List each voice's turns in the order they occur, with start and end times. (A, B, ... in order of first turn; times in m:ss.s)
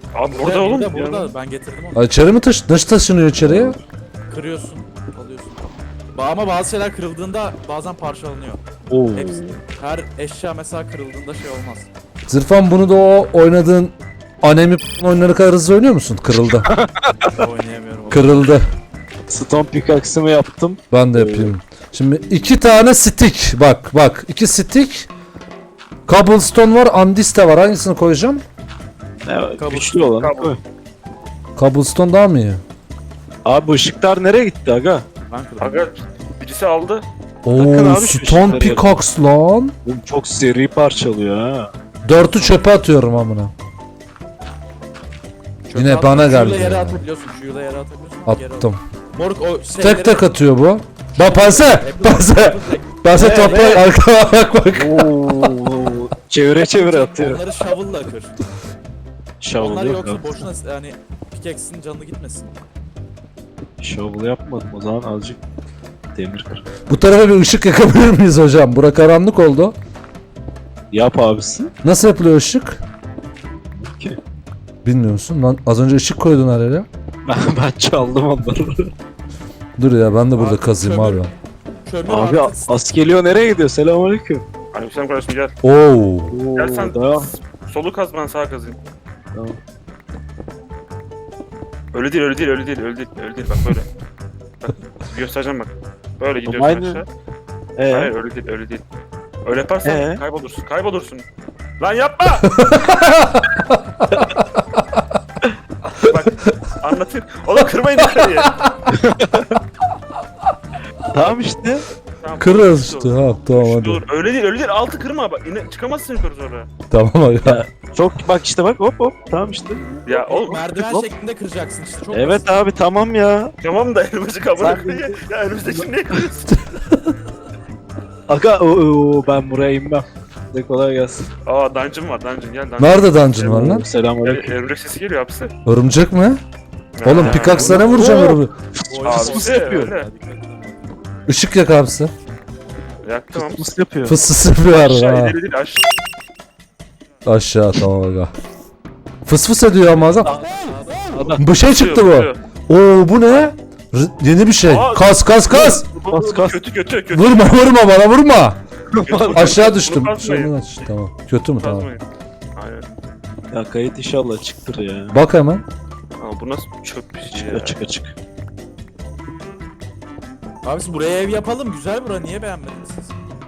0:00.1-0:01.1 A
0:00.4-0:02.0 B
0:00.9-0:01.3 C
0:02.0-0:03.8 D
0:03.4-0:03.8 C
0:04.3-0:08.6 B
0:08.9-0:09.6 C
0:09.2-0:11.9 B
0:12.3-0:16.7 D
0:16.5-0:17.4 C
0:17.2-0:18.6 B
0:18.1-0:18.6 D
0:19.3-0:21.5 C
0:20.9-0:25.1 D
0:26.1-0:28.4 D
0:29.2-0:30.6 C
0:29.6-0:30.1 B
0:30.0-0:30.5 A
0:31.6-0:32.6 D
0:33.4-0:35.1 C
0:35.3-0:35.9 B
0:35.6-0:37.0 A
0:37.4-0:39.8 D
0:37.5-0:39.0 C
0:39.8-0:41.7 C
0:42.0-0:43.5 D
0:42.2-0:42.6 B
0:45.7-0:50.2 B
0:45.7-0:47.0 D
0:48.3-0:48.8 D
0:49.7-0:55.6 D
0:51.2-0:53.0 B
0:53.1-0:53.9 C
0:54.7-0:57.4 C
0:56.6-0:58.4 B
0:59.4-1:00.4 C
0:59.5-1:02.5 B
1:03.8-1:05.4 C
1:06.1-1:06.6 C
1:06.9-1:09.8 D
1:10.9-1:11.7 C
1:11.8-1:12.8 D
1:13.7-1:14.2 C
1:14.8-1:16.9 D
1:17.3-1:18.9 C
1:19.8-1:21.3 D
1:20.4-1:21.3 B
1:21.8-1:22.8 B
1:22.1-1:24.5 C
1:24.7-1:25.5 A
1:25.6-1:26.4 D
1:26.3-1:27.3 C
1:26.6-1:28.8 A
1:29.3-1:29.6 C
1:31.9-1:33.9 A
1:34.6-1:37.1 A
1:36.4-1:37.0 C
1:37.8-1:38.1 C
1:37.9-1:38.8 A
1:39.4-1:41.2 A
1:39.8-1:40.2 C
1:41.8-1:42.5 A
1:42.4-1:44.4 D
1:46.0-1:48.5 A
1:48.2-1:49.0 D
1:48.9-1:49.6 C
1:51.1-1:51.8 C
1:52.2-1:56.7 A
1:52.4-1:54.0 D
1:56.9-1:57.6 D
1:57.4-2:00.1 C
2:00.1-2:00.7 A
2:00.1-2:02.5 B
2:00.8-2:01.1 C
2:02.1-2:03.5 C
2:03.6-2:06.6 A
2:04.6-2:05.2 C
2:06.7-2:07.2 D
2:08.3-2:11.3 C
2:11.4-2:15.5 A
2:12.8-2:13.9 D
2:13.4-2:14.6 C
2:15.7-2:16.4 D
2:17.0-2:17.8 A
2:17.0-2:18.5 D
2:17.2-2:18.3 B
2:17.5-2:20.0 C
2:18.9-2:21.0 B
2:19.0-2:20.1 A
2:21.3-2:22.1 D
2:23.0-2:23.7 A
2:23.3-2:24.2 C
2:24.0-2:25.4 D
2:24.7-2:25.8 A
2:27.2-2:28.3 D
2:29.3-2:30.4 D
2:30.2-2:31.5 C
2:30.4-2:31.3 B
2:31.4-2:35.9 D
2:31.7-2:32.4 A
2:34.6-2:37.5 A
2:35.5-2:36.6 C
2:37.1-2:38.6 D
2:38.9-2:39.6 C
2:39.0-2:40.6 A
2:39.3-2:41.9 D
2:41.6-2:42.0 A
2:42.6-2:42.9 A
2:43.5-2:45.2 C
2:45.1-2:45.6 D
2:46.2-2:47.8 A
2:47.3-2:48.2 C
2:50.6-2:53.1 B